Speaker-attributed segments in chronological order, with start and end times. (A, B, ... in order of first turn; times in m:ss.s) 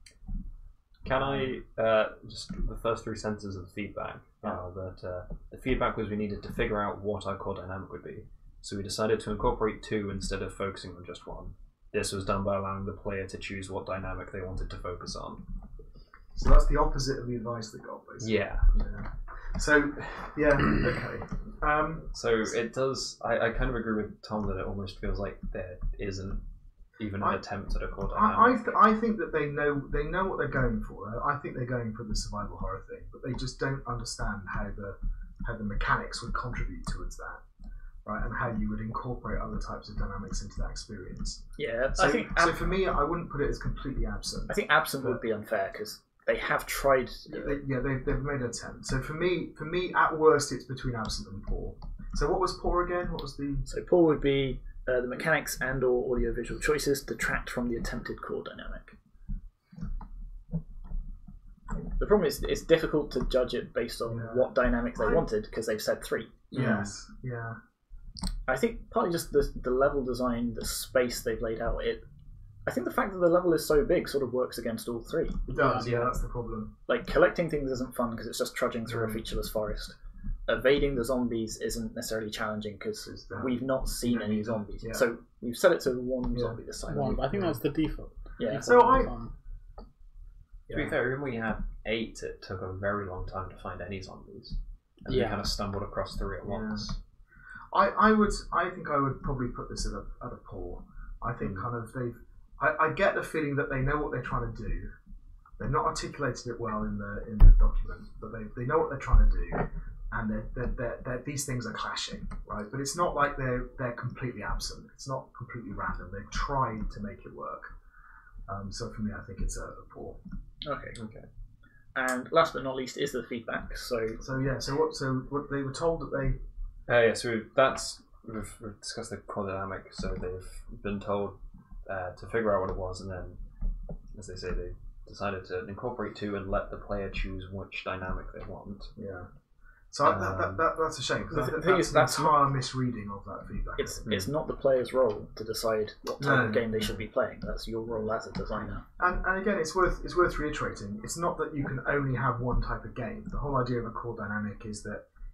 0:01.0-0:15.4 A
0:01.1-0:01.5 B
0:16.4-0:22.1 B
0:18.2-0:18.7 A
0:22.1-0:26.4 A
0:27.0-0:28.7 A
0:28.1-0:37.4 B
0:38.0-0:41.4 B
0:41.6-0:42.8 C
0:42.0-0:45.2 B
0:44.5-0:47.6 C
0:47.3-0:53.7 B
0:53.7-0:59.0 C
1:02.0-1:06.6 C
1:04.1-1:05.2 B
1:06.5-1:07.6 B
1:06.5-1:06.9 A
1:08.5-1:12.0 C
1:12.7-1:16.1 C
1:15.5-1:16.7 B
1:16.9-1:20.0 C
1:18.9-1:19.2 B
1:20.5-1:27.5 C
1:23.2-1:25.1 B
1:26.3-1:26.6 B
1:26.9-1:29.3 D
1:28.4-1:28.8 C
1:28.7-1:29.1 B
1:30.7-1:31.0 B
1:30.7-1:37.0 A
1:35.1-1:35.5 D
1:36.4-1:36.9 B
1:37.7-1:44.9 B
1:41.4-1:41.7 A
1:45.6-1:57.7 B
1:58.5-2:00.2 B
2:00.6-2:01.0 C
2:01.0-2:01.3 A
2:02.0-2:04.2 C
2:04.2-2:06.4 B
2:06.9-2:13.4 A
2:14.1-2:18.9 A
2:19.0-2:19.3 B
2:19.9-2:24.2 B
2:20.0-2:20.6 A
2:21.3-2:22.4 C
2:23.8-2:28.8 C
2:24.1-2:24.3 A
2:26.2-2:27.0 B
2:29.0-2:35.0 B